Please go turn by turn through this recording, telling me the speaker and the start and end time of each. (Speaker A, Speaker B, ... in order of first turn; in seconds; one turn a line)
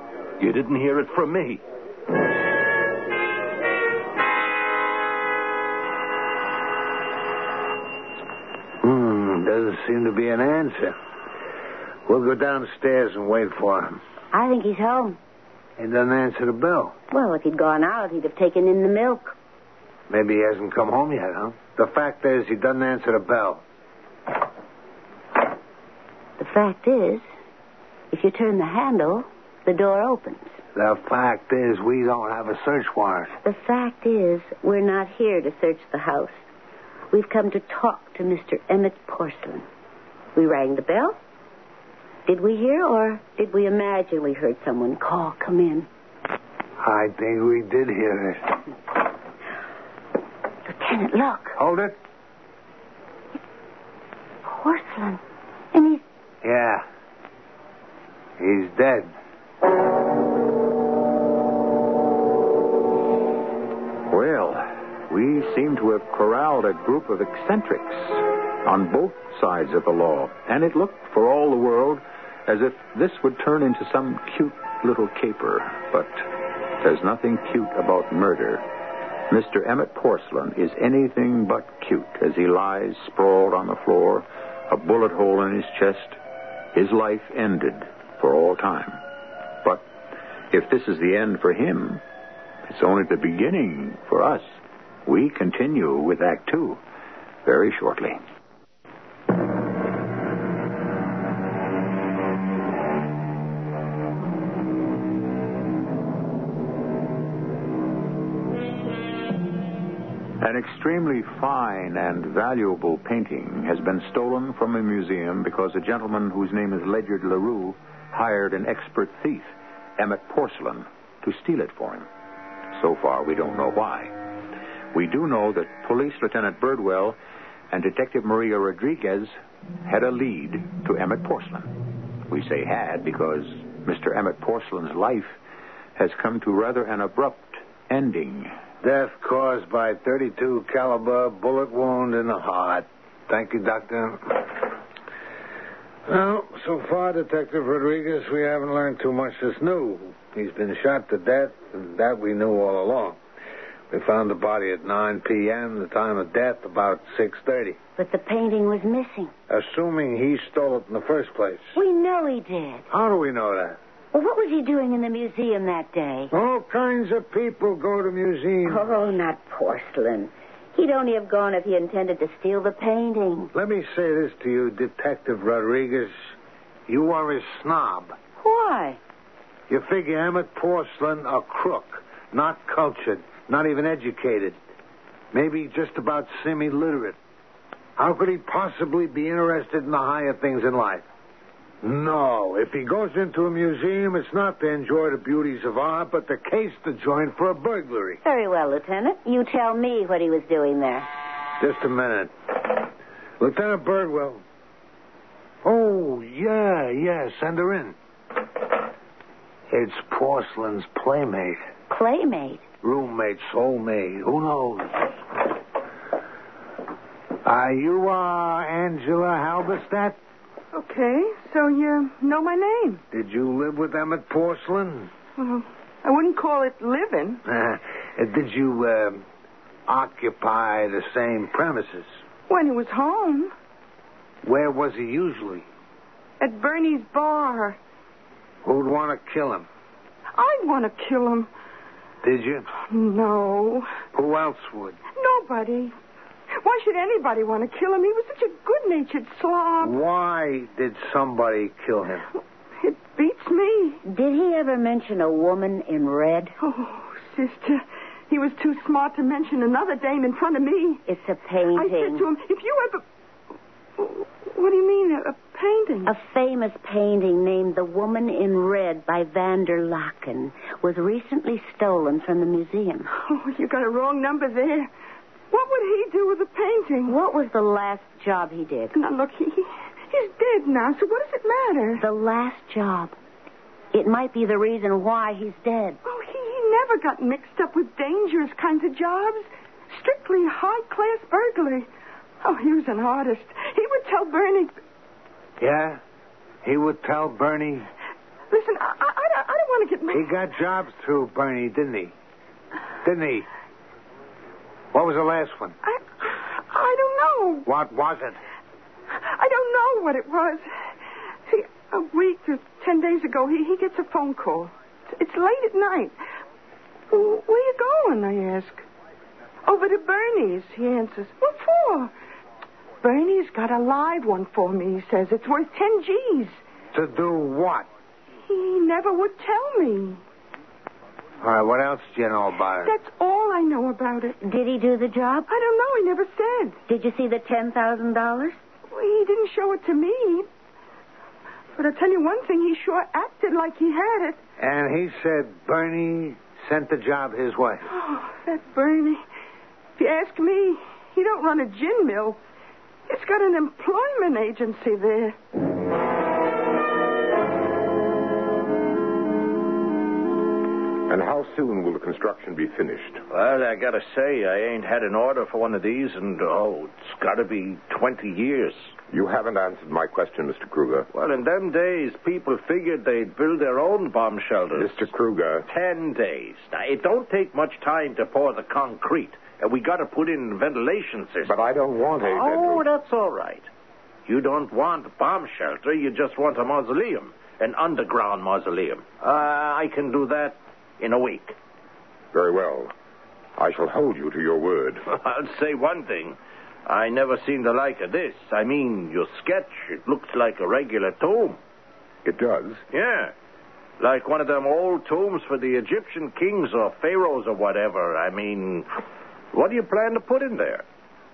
Speaker A: 0.4-1.6
Speaker B: 8.8-11.0
Speaker B: 12.1-14.0
Speaker C: 14.3-15.2
Speaker B: 15.8-16.9
Speaker C: 17.1-19.4
Speaker B: 20.1-23.6
Speaker C: 26.4-27.2
Speaker C: 28.1-30.5
Speaker B: 30.8-33.3
Speaker C: 33.4-36.4
Speaker C: 37.1-39.6
Speaker C: 40.4-41.2
Speaker C: 42.2-45.9
Speaker B: 46.8-48.4
Speaker C: 50.6-51.6
Speaker B: 51.6-52.0
Speaker C: 54.4-55.2
Speaker C: 55.7-56.0
Speaker B: 56.4-56.9
Speaker B: 58.4-59.1
Speaker D: 64.1-78.7
Speaker D: 79.3-86.2
Speaker D: 86.7-89.0
Speaker D: 90.5-92.0
Speaker D: 92.7-96.8
Speaker D: 97.4-98.2
Speaker D: 110.4-122.1
Speaker D: 122.7-124.1
Speaker D: 124.9-127.2
Speaker D: 127.7-129.3
Speaker D: 129.8-131.7
Speaker D: 132.3-135.4
Speaker D: 136.0-138.6
Speaker B: 138.8-144.7
Speaker B: 146.1-153.2
Speaker B: 153.9-157.8
Speaker C: 158.0-159.3
Speaker B: 159.5-161.7
Speaker C: 161.8-162.9
Speaker B: 162.9-163.8
Speaker C: 164.1-166.3
Speaker B: 166.3-168.8
Speaker C: 168.6-173.5
Speaker B: 173.5-176.3
Speaker B: 176.9-178.2
Speaker C: 178.4-179.0
Speaker B: 179.7-184.6
Speaker B: 185.3-187.2
Speaker B: 188.0-191.0
Speaker B: 191.8-198.2
Speaker C: 198.2-201.1
Speaker B: 201.6-202.9
Speaker B: 203.4-204.4
Speaker B: 205.6-207.9
Speaker B: 209.7-211.6
Speaker C: 211.9-212.6
Speaker B: 212.8-215.1
Speaker B: 217.4-220.2
Speaker E: 220.7-223.0
Speaker B: 223.1-225.1
Speaker E: 225.4-227.4
Speaker B: 227.5-229.2
Speaker B: 229.9-232.1
Speaker E: 232.5-233.5
Speaker B: 234.4-235.7
Speaker E: 236.4-237.8
Speaker B: 238.6-239.7
Speaker E: 240.3-241.5
Speaker B: 242.2-242.7
Speaker E: 242.8-244.0
Speaker B: 244.1-245.0
Speaker E: 245.1-245.9
Speaker E: 246.6-250.0
Speaker B: 249.8-252.2
Speaker E: 252.8-254.0
Speaker C: 254.1-256.5
Speaker E: 256.6-261.0
Speaker C: 261.1-262.2
Speaker E: 261.7-263.0
Speaker E: 264.0-266.1
Speaker C: 266.1-273.1
Speaker E: 273.1-274.9
Speaker E: 275.5-277.1
Speaker C: 277.1-278.9
Speaker E: 278.9-282.0
Speaker C: 282.0-283.1
Speaker C: 283.9-286.0
Speaker E: 286.1-291.9
Speaker E: 292.4-294.8
Speaker B: 295.6-296.0
Speaker B: 296.6-297.9
Speaker E: 298.5-300.4
Speaker B: 300.1-302.1
Speaker B: 303.0-303.4
Speaker B: 304.9-305.8
Speaker E: 305.8-307.6
Speaker B: 307.6-308.4
Speaker E: 309.2-310.7
Speaker E: 311.5-316.1
Speaker E: 317.1-318.9
Speaker E: 319.6-322.1
Speaker E: 323.0-326.6
Speaker B: 326.9-327.9
Speaker E: 328.5-330.2
Speaker B: 331.4-332.9
Speaker E: 332.8-334.4
Speaker C: 334.4-335.5
Speaker E: 335.5-336.8
Speaker C: 336.9-338.6
Speaker E: 338.9-340.5
Speaker E: 341.7-344.4
Speaker B: 344.6-347.9
Speaker E: 347.9-349.2
Speaker E: 350.0-352.4
Speaker E: 353.1-355.4
Speaker F: 361.1-363.2
Speaker A: 363.3-368.9
Speaker F: 369.1-371.1
Speaker A: 371.1-375.0
Speaker F: 374.7-375.6
Speaker A: 375.7-381.5
Speaker F: 381.4-382.9
Speaker A: 382.2-383.7
Speaker A: 384.2-391.6
Speaker F: 392.3-392.9
Speaker F: 393.6-395.0
Speaker A: 395.1-401.6
Speaker F: 402.2-402.8
Speaker A: 402.9-403.3
Speaker A: 404.0-408.9
Speaker A: 409.5-410.8